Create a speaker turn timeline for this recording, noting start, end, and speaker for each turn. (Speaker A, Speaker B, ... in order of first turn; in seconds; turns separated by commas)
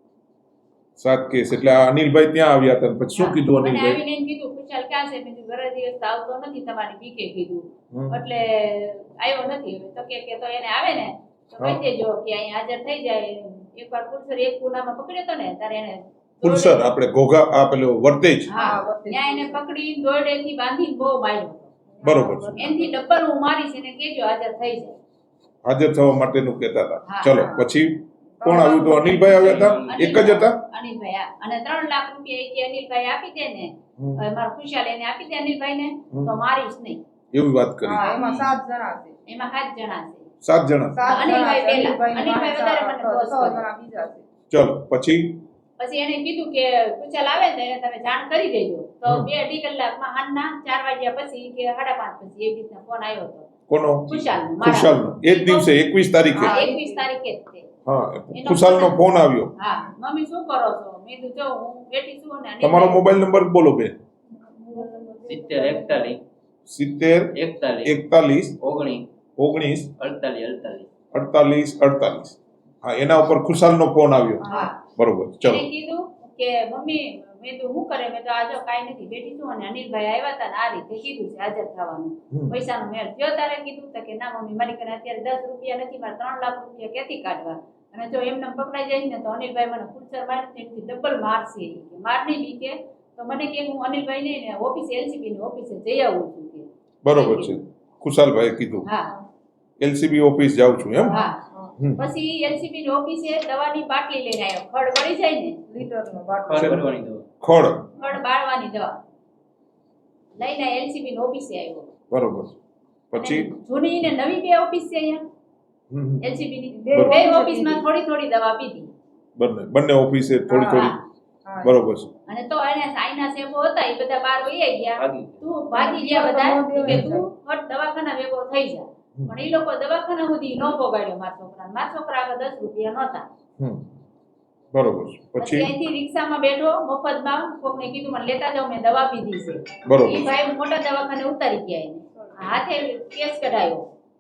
Speaker A: 1.0-4.0, Speaker B: 3.1-16.8, Speaker A: 7.9-8.2, Speaker A: 11.6-11.8, Speaker A: 16.4-18.5, Speaker C: 18.5-19.6, Speaker B: 18.5-21.7, Speaker C: 22.0-23.0, Speaker A: 22.0-22.6, Speaker B: 22.6-25.0, Speaker A: 25.6-30.6, Speaker B: 27.1-27.4, Speaker C: 27.3-27.7, Speaker C: 28.4-29.3, Speaker B: 29.0-37.0, Speaker D: 29.3-30.4, Speaker A: 34.0-34.2, Speaker A: 36.1-36.4, Speaker A: 37.3-38.5, Speaker C: 37.8-39.2, Speaker B: 38.0-38.3, Speaker B: 39.3-40.3, Speaker A: 40.4-41.2, Speaker C: 40.9-44.3, Speaker B: 41.0-43.7, Speaker A: 44.5-45.4, Speaker B: 45.8-53.5, Speaker A: 53.7-56.6, Speaker B: 54.1-55.7, Speaker C: 56.3-57.1, Speaker B: 56.3-57.7, Speaker A: 57.9-59.5, Speaker B: 58.3-59.0, Speaker B: 59.6-63.0, Speaker A: 62.6-64.0, Speaker C: 64.4-66.2, Speaker D: 65.3-66.2, Speaker A: 66.7-68.6, Speaker D: 67.4-67.9, Speaker D: 68.6-69.1, Speaker A: 69.4-69.9, Speaker D: 70.0-70.9, Speaker A: 71.1-75.7, Speaker C: 74.4-74.7, Speaker B: 74.5-74.8, Speaker B: 75.4-97.6, Speaker A: 82.3-82.6, Speaker A: 97.0-98.9, Speaker B: 98.9-99.1, Speaker A: 99.8-101.2, Speaker C: 101.0-101.7, Speaker B: 101.1-101.4, Speaker B: 102.0-105.6, Speaker C: 105.7-106.9, Speaker D: 106.5-107.3, Speaker A: 106.6-106.8, Speaker A: 107.4-107.9, Speaker B: 108.0-109.0, Speaker B: 110.4-111.9, Speaker A: 112.1-112.5, Speaker A: 113.1-113.5, Speaker B: 113.2-115.2, Speaker A: 115.9-116.2, Speaker B: 116.2-118.9, Speaker C: 116.7-117.9, Speaker A: 116.9-117.2, Speaker A: 119.4-121.0, Speaker C: 120.4-120.9, Speaker B: 120.7-121.0, Speaker C: 121.5-121.9, Speaker A: 121.6-122.1, Speaker B: 122.3-133.3, Speaker D: 125.0-125.4, Speaker C: 125.7-127.3, Speaker A: 134.7-135.7, Speaker B: 135.4-143.8, Speaker A: 139.8-140.3, Speaker C: 142.2-142.6